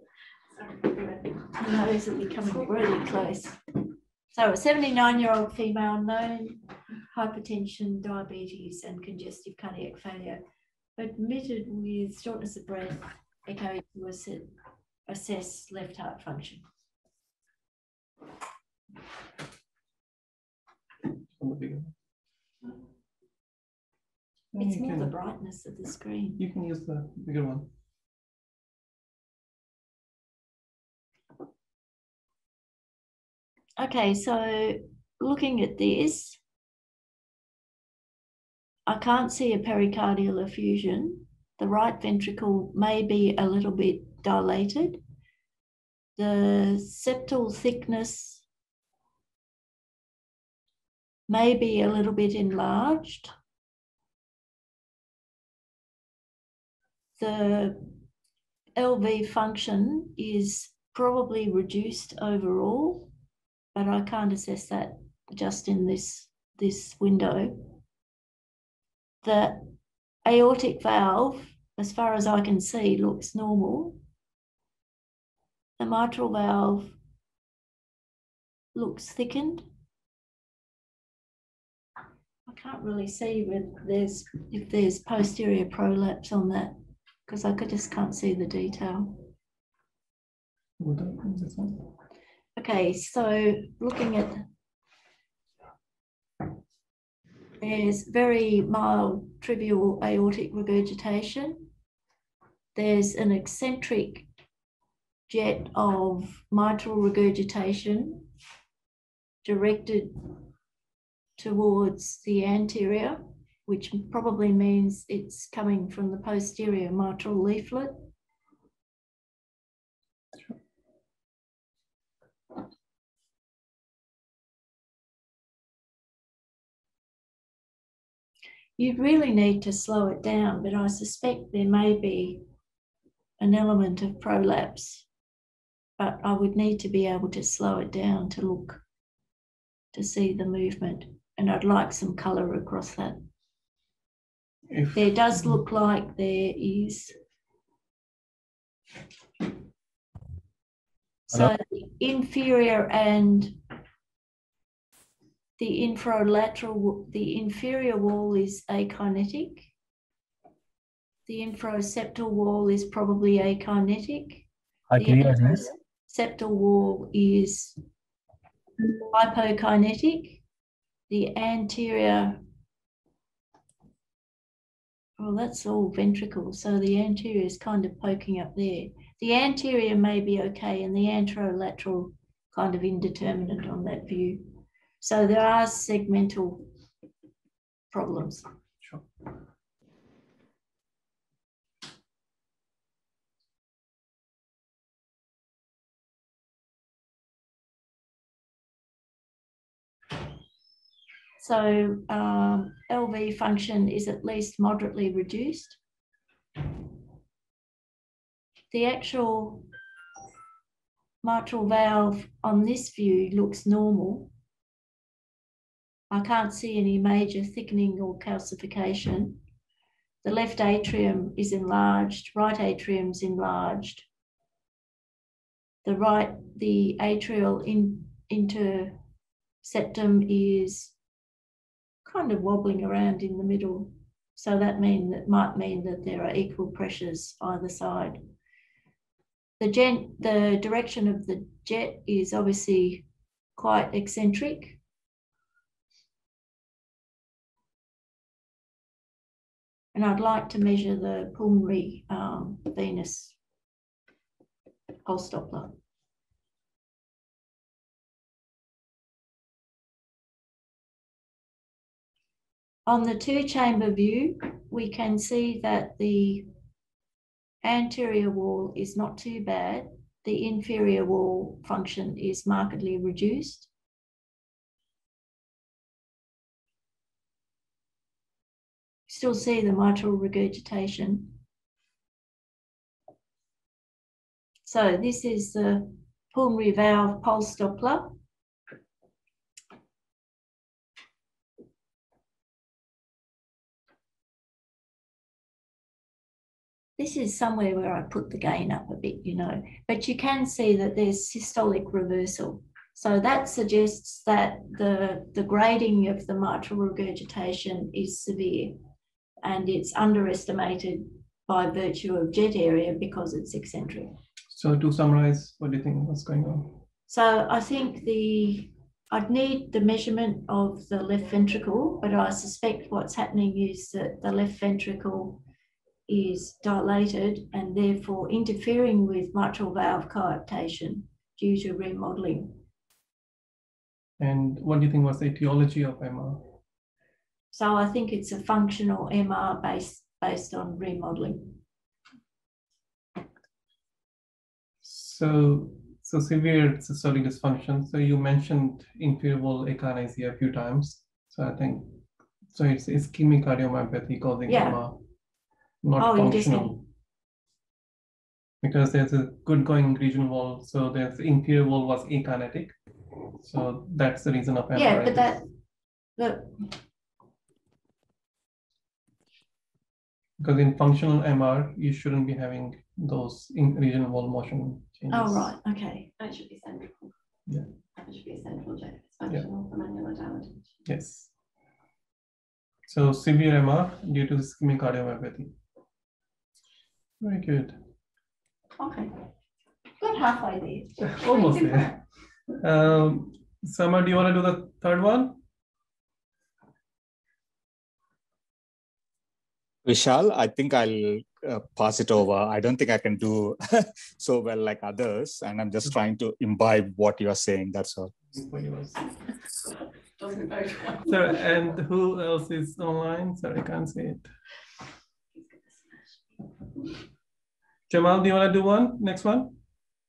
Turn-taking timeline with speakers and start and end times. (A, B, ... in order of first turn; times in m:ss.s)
0:00.7-0:03.6 A
0:04.3-0:10.4 A
0:11.0-0:14.5 A
0:15.1-0:16.7 A
0:21.4-0:21.9 B
0:24.5-0:25.1 B
0:24.6-0:26.4 A
0:26.4-0:27.7 B
0:33.8-0:36.4 A
0:38.9-0:45.0 A
0:46.2-0:48.4 A
0:51.3-0:53.3 A
0:57.2-0:57.9 A
0:58.8-1:03.1 A
1:03.7-1:07.8 A
1:09.2-1:09.7 A
1:10.2-1:14.0 A
1:15.8-1:17.0 A
1:18.7-1:19.7 A
1:22.5-1:26.8 A
1:27.3-1:29.3 A
1:30.8-1:31.9 B
1:32.6-1:34.4 A
1:37.6-1:41.7 A
1:42.8-1:44.3 A
1:45.3-1:48.3 A
1:49.4-1:50.4 A
1:51.4-1:58.0 A
2:08.8-2:12.4 A
2:13.4-2:15.1 A
2:16.0-2:18.8 A
2:19.9-2:23.3 A
2:24.7-2:25.6 B
2:24.9-2:27.2 A
2:31.3-2:33.6 A
2:35.6-2:39.7 A
2:41.3-2:47.8 A
2:44.9-2:45.6 C
2:49.1-2:50.4 A
2:51.1-2:52.4 A
2:55.2-3:06.7 A
3:07.9-3:08.5 A
3:21.4-3:25.8 A
3:28.7-3:29.7 A
3:31.2-3:34.3 A
3:36.1-3:39.4 A
3:40.2-3:44.1 A
3:45.8-3:49.0 A
3:49.6-3:50.9 A
3:52.0-3:58.2 A
3:59.6-4:03.0 A
4:03.6-4:04.8 A
4:09.9-4:13.4 A
4:15.0-4:15.8 A
4:22.9-4:26.5 A
4:27.6-4:33.7 A
4:39.1-4:41.4 A
4:44.7-4:48.2 A
4:57.0-5:08.8 A
5:09.4-5:14.2 A
5:14.5-5:16.8 B
5:17.1-5:25.4 A
5:26.1-5:32.6 A
5:34.2-5:36.5 B
5:37.5-5:41.6 A
5:44.8-5:52.0 B
5:52.5-5:55.0 B
5:54.5-5:54.8 A
5:55.8-5:56.8 B
5:56.0-5:56.8 A
5:58.6-6:02.8 B
6:03.4-6:05.4 B
6:04.8-6:05.5 A
6:06.2-6:06.7 A
6:10.4-6:15.5 B
6:15.1-6:16.1 A
6:16.2-6:17.1 D
6:18.0-6:20.8 D
6:20.8-6:21.3 B
6:22.9-6:25.5 B
6:27.2-6:27.8 B
6:30.0-6:31.8 D
6:31.0-6:32.0 B
6:32.6-6:35.4 B
6:39.8-6:48.1 C
6:48.3-6:49.0 B
6:50.2-6:51.1 D
6:51.1-6:54.3 B
6:55.4-6:56.0 D
6:57.9-6:59.6 B